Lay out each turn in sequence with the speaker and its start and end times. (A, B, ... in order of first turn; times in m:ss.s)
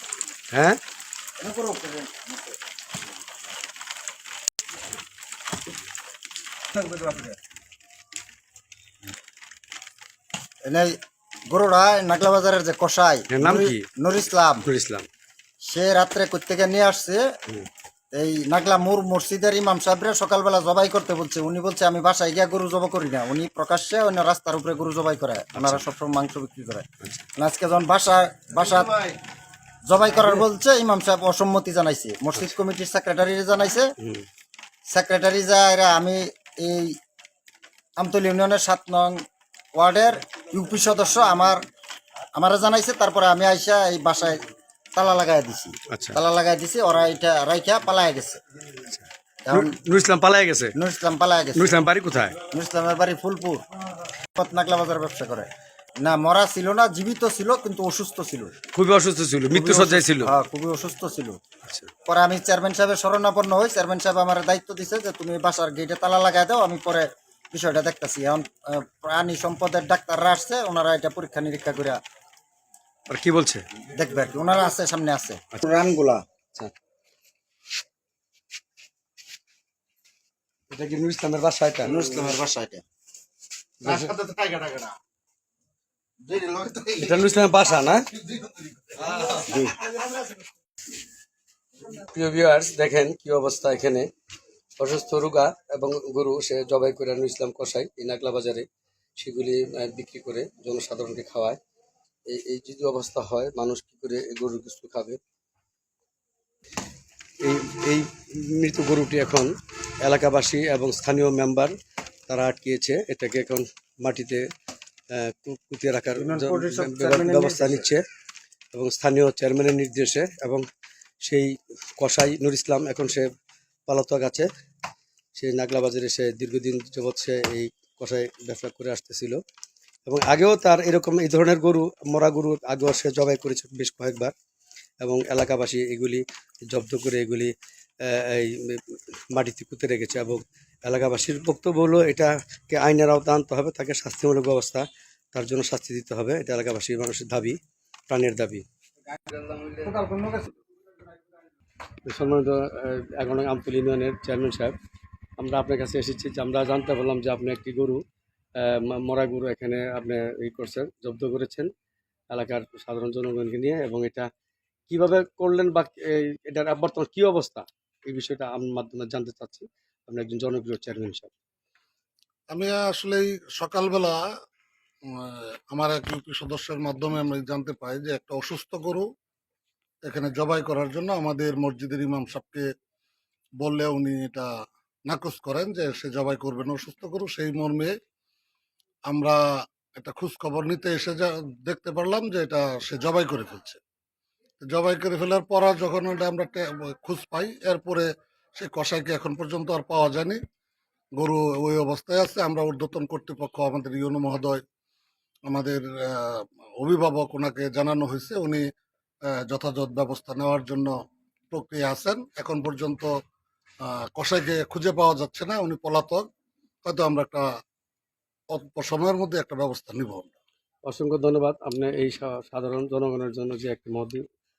0:00.5-0:00.8 A
0:01.4-0:02.6 B
0:10.7-0:14.7 B
0:13.3-0:13.9 A
0:14.6-0:15.1 A
0:15.6-0:17.3 B
0:18.1-0:29.1 B
0:25.5-0:25.8 A
0:29.9-0:33.9 B
0:34.0-0:34.2 A
0:34.9-0:37.0 B
0:38.0-0:39.2 B
0:39.8-0:41.6 B
0:42.3-0:48.4 B
0:45.9-0:46.2 A
0:48.9-0:50.7 A
0:49.4-0:49.8 B
0:50.7-0:51.8 B
0:51.5-0:52.4 A
0:52.5-0:53.6 B
0:54.4-0:58.6 B
0:58.7-1:00.3 A
0:59.5-1:01.4 B
1:01.6-1:01.9 A
1:02.0-1:12.0 B
1:13.1-1:13.6 A
1:13.9-1:16.2 B
1:20.7-1:22.0 A
1:21.8-1:22.8 B
1:23.8-1:24.1 A
1:24.1-1:24.8 C
1:24.4-1:24.6 B
1:26.4-1:26.9 C
1:27.0-1:28.1 A
1:29.0-1:29.8 A
1:31.9-1:34.1 A
1:34.8-1:38.6 A
1:39.2-1:41.6 A
1:42.3-1:45.2 A
1:47.4-1:49.5 A
1:50.0-1:51.7 A
1:52.3-1:54.4 A
1:55.1-1:58.0 A
1:56.1-1:58.0 B
1:58.7-2:00.6 A
2:01.2-2:03.3 A
2:03.9-2:04.5 A
2:05.4-2:09.4 A
2:10.1-2:14.3 A
2:15.0-2:27.6 A
2:28.1-2:28.6 A
2:29.7-2:30.5 B
2:32.0-2:34.7 A
2:35.4-2:38.0 A
2:38.6-2:41.7 A
2:42.3-2:44.3 A
2:44.9-2:51.3 A
2:52.5-2:54.2 C
2:55.0-2:59.1 C
3:00.0-3:02.7 C
3:03.6-3:04.5 C
3:05.1-3:08.0 C
3:09.1-3:09.4 C
3:10.0-3:13.8 C
3:14.6-3:20.4 C
3:21.2-3:24.6 C
3:25.5-3:28.6 C
3:29.3-3:31.0 C
3:31.5-3:33.1 C
3:33.8-3:36.3 C
3:36.8-3:37.4 C
3:38.5-3:40.3 C
3:40.8-3:44.2 A